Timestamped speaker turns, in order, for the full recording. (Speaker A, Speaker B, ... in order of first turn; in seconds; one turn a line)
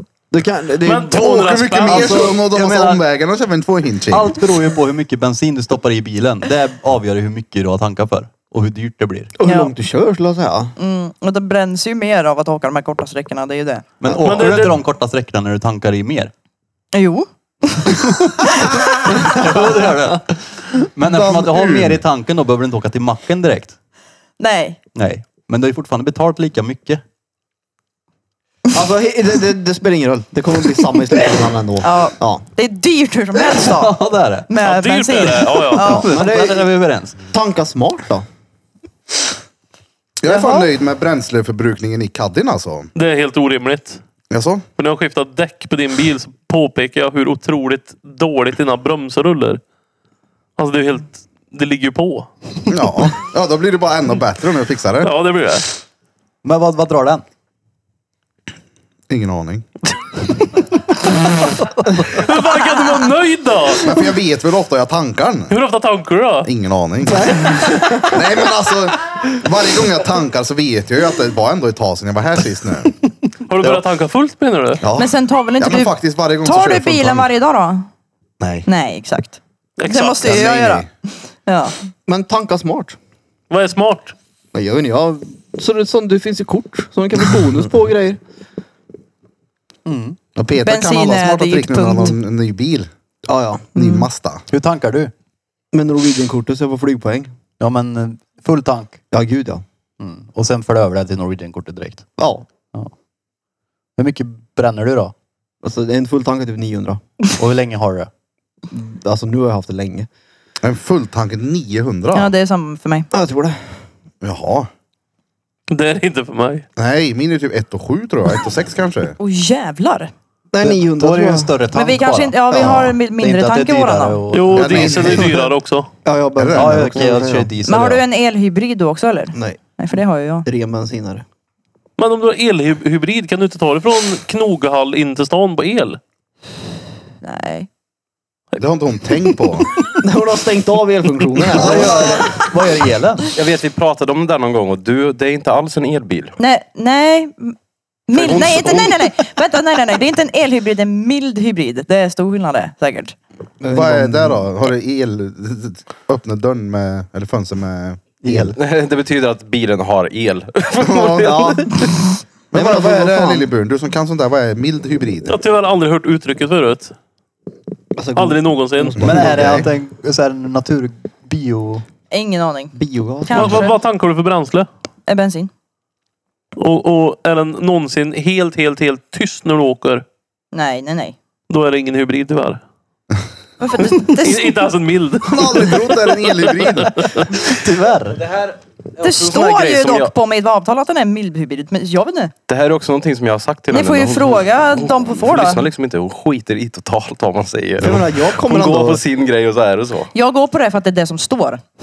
Speaker A: 0.3-1.2
Speaker B: 0.8-2.2
Speaker C: 1.1-4.4
Speaker A: 1.9-2.4
Speaker D: 2.4-3.0
Speaker D: 4.1-9.3
Speaker A: 9.4-10.7
Speaker E: 9.4-9.7
Speaker E: 10.8-13.9
Speaker D: 14.0-16.3
Speaker A: 14.1-14.5
Speaker B: 14.2-14.8
Speaker E: 16.9-18.7
Speaker D: 19.1-23.8
Speaker C: 21.1-22.0
Speaker E: 24.4-24.8
Speaker D: 24.9-27.0
Speaker A: 28.7-32.4
Speaker E: 31.8-34.0
Speaker D: 33.4-34.5
Speaker E: 34.5-36.1
Speaker B: 34.6-35.9
Speaker D: 35.8-37.2
Speaker A: 35.8-36.8
Speaker A: 37.3-38.3
Speaker C: 40.2-42.9
Speaker E: 40.3-40.7
Speaker B: 43.0-44.0
Speaker C: 44.3-44.6
Speaker B: 44.8-49.6
Speaker B: 50.6-52.3
Speaker C: 52.7-55.1
Speaker B: 55.0-55.7
Speaker D: 56.4-57.2
Speaker C: 59.1-59.7
Speaker B: 62.1-64.0
Speaker C: 63.8-65.5
Speaker B: 65.5-66.5
Speaker C: 66.4-73.0
Speaker A: 67.0-68.3
Speaker B: 73.5-74.8
Speaker C: 74.8-77.3
Speaker E: 75.0-77.9
Speaker C: 78.4-78.7
Speaker E: 78.7-81.8
Speaker B: 79.8-80.3
Speaker C: 80.2-80.9
Speaker A: 82.1-83.0
Speaker B: 83.5-84.2
Speaker A: 84.5-88.2
Speaker D: 89.9-90.2
Speaker C: 90.4-92.9
Speaker E: 90.6-92.2
Speaker A: 93.3-93.8
Speaker C: 93.8-94.5
Speaker E: 93.8-94.1
Speaker D: 94.5-95.1
Speaker A: 95.7-97.3
Speaker D: 97.6-99.0
Speaker A: 99.1-99.6
Speaker D: 100.0-102.1
Speaker A: 102.2-102.5
Speaker D: 104.0-105.1
Speaker A: 105.6-107.0
Speaker D: 107.4-108.1
Speaker A: 108.7-110.1
Speaker C: 110.6-112.3
Speaker E: 112.1-113.1
Speaker A: 113.1-113.6
Speaker C: 114.2-114.7
Speaker B: 115.7-116.7
Speaker C: 116.8-119.2
Speaker E: 119.2-120.1
Speaker A: 120.5-121.6
Speaker D: 120.6-125.2
Speaker E: 121.7-124.2
Speaker A: 122.5-122.9
Speaker B: 124.3-125.9
Speaker C: 124.5-125.4
Speaker A: 126.0-127.5
Speaker C: 126.4-126.9
Speaker D: 126.5-128.0
Speaker E: 127.7-130.5
Speaker A: 130.5-131.2
Speaker B: 132.0-136.0
Speaker E: 137.2-137.7
Speaker C: 138.6-139.7
Speaker A: 140.0-142.5
Speaker D: 141.5-143.3
Speaker C: 141.6-142.3
Speaker F: 143.3-146.4
Speaker E: 146.4-147.6
Speaker E: 148.1-153.2
Speaker F: 148.2-149.0
Speaker A: 153.6-154.4
Speaker C: 153.7-158.5
Speaker D: 158.2-158.6
Speaker F: 158.6-161.8
Speaker C: 160.8-161.4
Speaker A: 161.2-161.9
Speaker C: 162.5-165.4
Speaker A: 162.5-163.5
Speaker B: 165.2-166.9
Speaker A: 168.0-169.7
Speaker B: 168.2-169.0
Speaker D: 169.0-171.8
Speaker E: 172.1-173.8
Speaker A: 172.8-173.7
Speaker B: 173.3-174.7
Speaker E: 175.1-175.5
Speaker B: 176.6-180.1
Speaker E: 180.5-181.2
Speaker B: 181.5-182.6
Speaker E: 183.6-184.6
Speaker B: 183.9-187.5
Speaker C: 185.2-187.0
Speaker D: 187.4-188.3
Speaker F: 188.2-190.1
Speaker E: 189.0-192.3
Speaker F: 192.5-200.1
Speaker E: 193.7-195.7
Speaker A: 197.8-199.0
Speaker E: 200.1-201.6